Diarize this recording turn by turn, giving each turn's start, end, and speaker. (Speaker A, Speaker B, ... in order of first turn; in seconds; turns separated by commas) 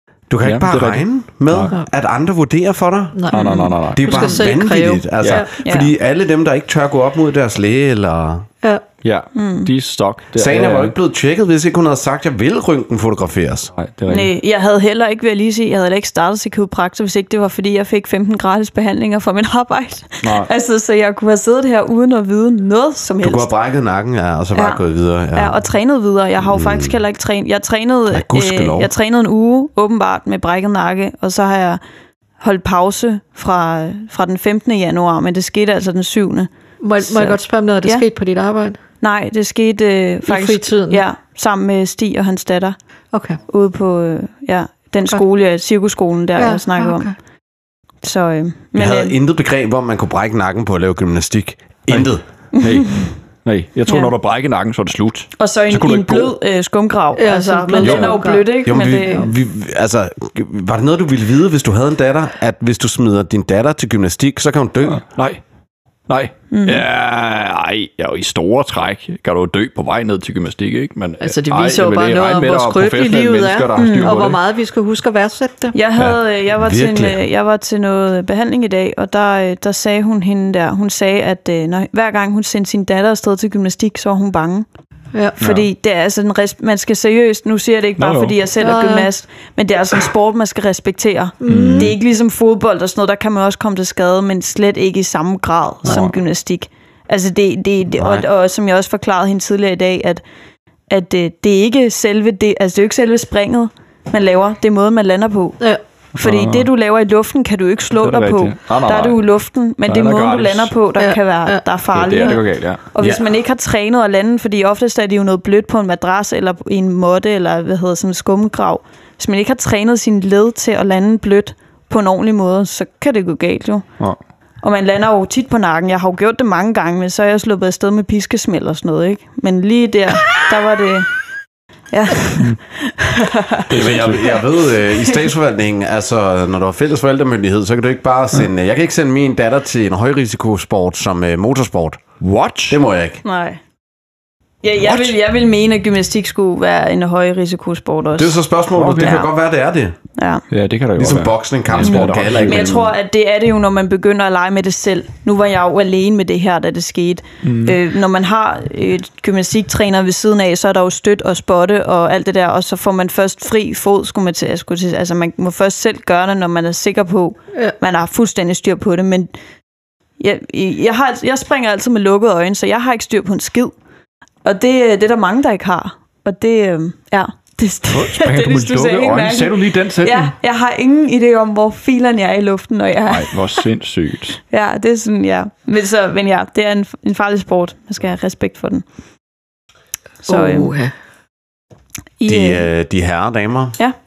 Speaker A: 0.3-3.3, Speaker B: 0.4-1.7, Speaker C: 3.1-3.5, Speaker B: 3.3-4.2, Speaker D: 3.3-4.4, Speaker A: 3.9-8.5, Speaker C: 4.0-5.5, Speaker D: 5.6-5.9, Speaker B: 9.0-10.9, Speaker D: 9.3-9.7, Speaker A: 10.3-13.7, Speaker B: 13.8-14.3, Speaker D: 14.1-23.5, Speaker B: 20.2-20.5, Speaker A: 23.2-25.6, Speaker D: 24.5-24.8, Speaker D: 25.3-31.8, Speaker A: 26.4-27.0, Speaker A: 28.1-28.9, Speaker D: 32.4-36.5, Speaker C: 36.8-38.8, Speaker D: 37.0-38.0, Speaker D: 39.0-42.8, Speaker C: 40.3-41.0, Speaker C: 43.1-43.4, Speaker D: 43.5-47.1, Speaker C: 46.4-47.1, Speaker D: 48.0-49.1, Speaker A: 48.8-52.2, Speaker B: 51.9-56.4, Speaker D: 52.5-53.1, Speaker D: 53.9-54.1, Speaker D: 55.4-59.3, Speaker C: 57.2-59.3, Speaker B: 57.8-58.1, Speaker A: 58.6-65.0, Speaker B: 65.0-65.4, Speaker B: 66.1-74.4, Speaker D: 66.5-66.8, Speaker C: 71.2-75.7, Speaker D: 73.8-74.2, Speaker D: 75.7-84.7, Speaker A: 76.0-77.2, Speaker B: 85.4-85.7, Speaker D: 85.4-100.2, Speaker B: 88.0-88.3, Speaker C: 88.6-89.1, Speaker C: 91.4-92.0, Speaker B: 91.5-91.9, Speaker B: 95.8-96.2, Speaker A: 98.0-98.2, Speaker D: 100.9-105.6, Speaker B: 106.2-106.7, Speaker D: 106.2-123.9, Speaker B: 108.0-109.2, Speaker B: 109.9-110.7, Speaker C: 111.0-111.6, Speaker B: 111.9-112.8, Speaker D: 124.6-131.1, Speaker D: 131.9-134.3, Speaker B: 133.7-134.2, Speaker A: 133.7-142.0, Speaker D: 134.9-135.2, Speaker B: 142.2-142.8, Speaker A: 142.7-143.2, Speaker D: 143.2-143.6, Speaker D: 144.6-149.3, Speaker B: 144.8-145.2, Speaker A: 148.2-150.0, Speaker B: 148.8-149.1, Speaker D: 150.2-150.4, Speaker B: 150.5-152.8, Speaker A: 151.0-152.9, Speaker D: 151.8-169.3, Speaker B: 157.4-157.8, Speaker D: 170.2-173.7, Speaker D: 174.4-183.7, Speaker B: 177.9-180.3, Speaker B: 183.1-184.4, Speaker D: 184.5-188.8, Speaker D: 190.3-190.7, Speaker C: 190.3-190.9, Speaker D: 192.2-192.7, Speaker A: 192.3-193.8